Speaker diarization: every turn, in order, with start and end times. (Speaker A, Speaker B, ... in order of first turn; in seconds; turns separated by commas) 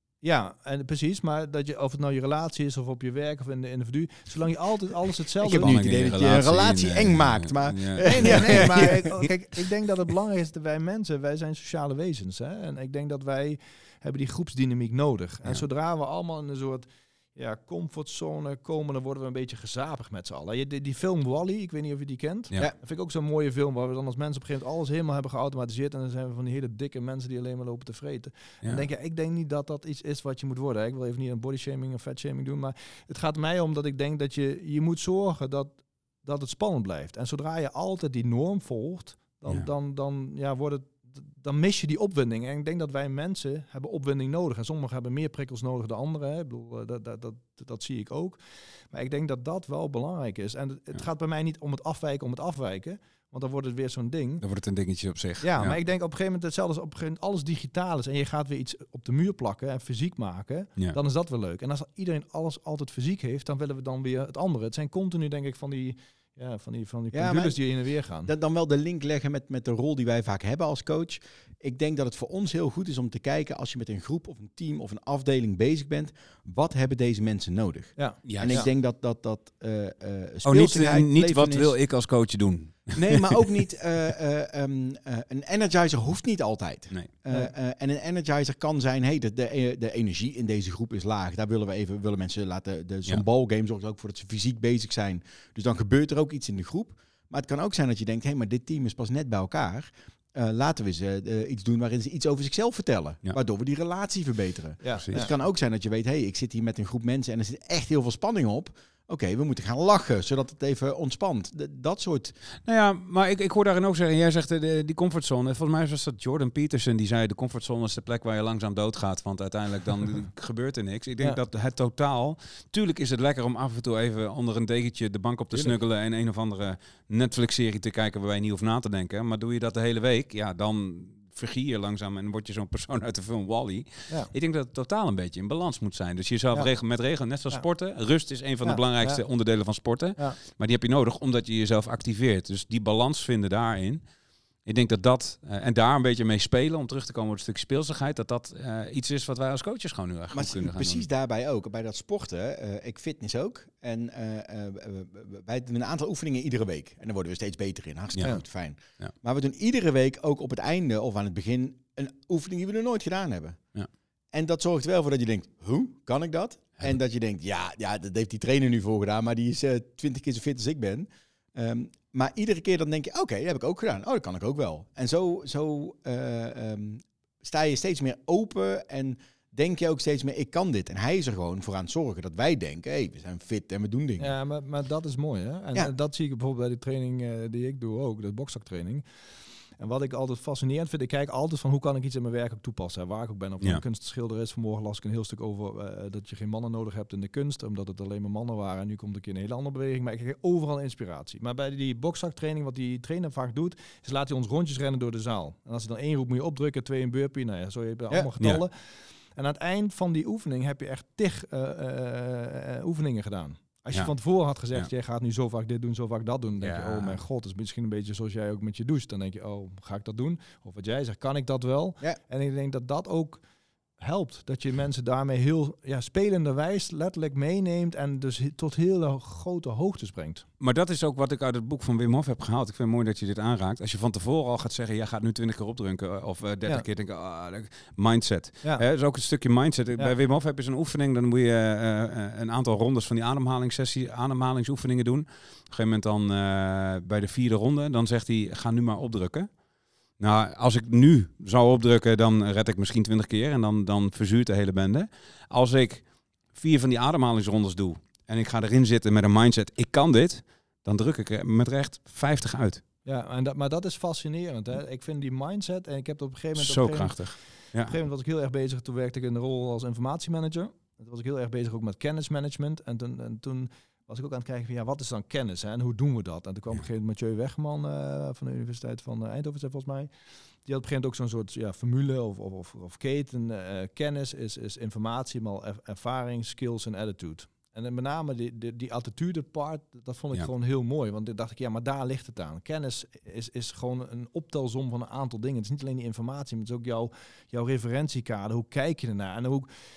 Speaker A: 0.2-5.7, Speaker B: 5.4-9.3, Speaker C: 5.6-8.6, Speaker A: 8.1-54.4, Speaker C: 54.4-55.8, Speaker A: 55.4-68.3, Speaker B: 67.1-67.7, Speaker B: 68.2-81.8, Speaker A: 78.0-78.7, Speaker C: 78.2-78.6, Speaker C: 80.5-83.4, Speaker B: 83.0-112.3, Speaker A: 104.8-105.3, Speaker C: 105.0-105.3, Speaker C: 112.7-144.0, Speaker A: 138.6-139.2, Speaker C: 144.7-151.1, Speaker B: 150.3-163.6, Speaker B: 164.3-184.3, Speaker A: 184.2-189.0, Speaker A: 189.8-223.4, Speaker C: 216.6-217.2, Speaker A: 224.0-230.4, Speaker C: 230.6-249.5, Speaker C: 250.2-262.8, Speaker A: 263.1-280.1, Speaker C: 266.6-267.9, Speaker A: 280.6-299.7